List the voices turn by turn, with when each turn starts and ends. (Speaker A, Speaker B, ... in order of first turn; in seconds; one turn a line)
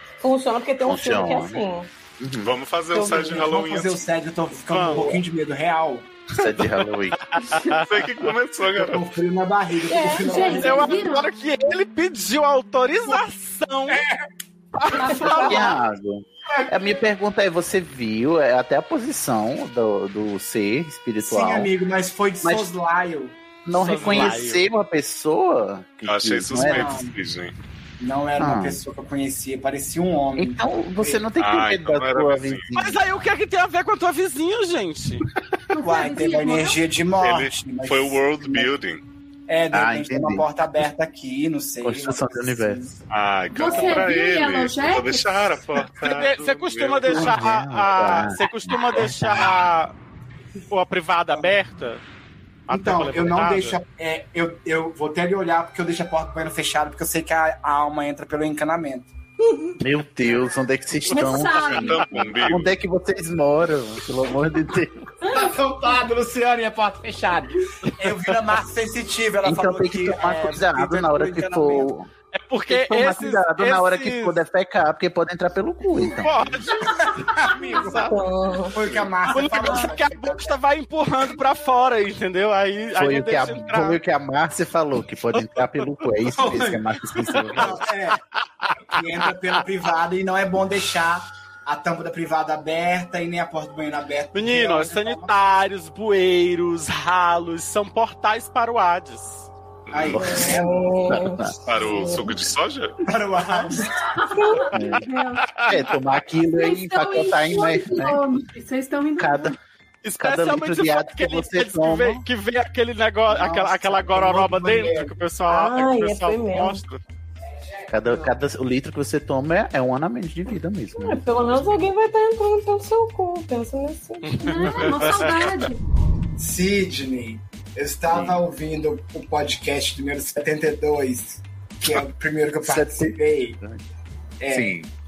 Speaker A: 0.2-1.9
Speaker B: 0.8-1.6
Speaker B: 2.2-2.5
Speaker C: 2.4-4.0
Speaker A: 2.9-3.5
Speaker D: 3.0-6.1
Speaker E: 4.7-5.2
Speaker B: 6.4-7.2
Speaker E: 7.2-8.3
Speaker F: 7.5-7.8
Speaker C: 7.9-9.1
Speaker D: 8.8-10.9
Speaker A: 9.8-10.9
Speaker F: 10.0-11.3
Speaker E: 10.4-14.0
Speaker D: 13.9-14.2
Speaker E: 14.8-15.8
Speaker F: 14.9-15.7
Speaker B: 15.3-21.7
Speaker D: 21.2-23.4
Speaker B: 22.4-22.7
Speaker B: 23.6-27.0
Speaker E: 23.7-24.6
Speaker D: 24.0-24.4
Speaker C: 26.1-27.6
Speaker D: 26.6-27.1
Speaker D: 28.0-31.2
Speaker B: 28.4-28.8
Speaker B: 30.4-33.1
Speaker C: 31.4-32.7
Speaker E: 32.8-35.2
Speaker F: 35.7-36.8
Speaker D: 35.8-38.7
Speaker C: 37.2-39.0
Speaker D: 39.5-42.9
Speaker B: 39.7-40.5
Speaker B: 41.8-43.0
Speaker C: 43.1-47.4
Speaker F: 43.5-45.4
Speaker E: 46.0-49.9
Speaker B: 47.1-49.5
Speaker E: 50.7-52.0
Speaker E: 52.7-53.8
Speaker D: 52.7-59.1
Speaker B: 59.8-65.1
Speaker F: 61.1-62.0
Speaker E: 61.1-61.5
Speaker C: 61.6-62.8
Speaker D: 65.2-71.9
Speaker B: 69.4-72.1
Speaker E: 72.3-74.4
Speaker B: 72.7-76.4
Speaker E: 76.0-78.2
Speaker D: 76.2-78.2
Speaker A: 78.1-78.8
Speaker D: 78.7-80.6
Speaker E: 79.2-84.0
Speaker B: 83.0-87.8
Speaker E: 85.3-86.1
Speaker D: 86.3-86.8
Speaker E: 87.2-89.6
Speaker D: 87.5-88.2
Speaker D: 88.9-95.3
Speaker E: 94.3-99.5
Speaker C: 99.9-100.2
Speaker D: 99.9-100.9
Speaker B: 100.0-101.5
Speaker A: 100.2-102.4
Speaker C: 101.7-103.0
Speaker D: 103.1-104.0
Speaker F: 103.7-105.9
Speaker A: 104.3-104.7
Speaker B: 104.7-105.0
Speaker E: 104.8-106.0
Speaker B: 105.6-108.2
Speaker F: 106.5-109.6
Speaker B: 109.2-109.6
Speaker E: 110.0-117.0
Speaker B: 110.2-112.2
Speaker D: 113.3-115.1
Speaker A: 115.5-116.8
Speaker B: 117.9-121.5
Speaker D: 118.0-118.3
Speaker A: 121.0-124.9
Speaker E: 124.2-125.3
Speaker F: 124.4-125.8
Speaker D: 126.4-133.6
Speaker B: 128.1-128.4
Speaker B: 132.6-133.8
Speaker D: 134.4-134.8
Speaker B: 134.5-134.9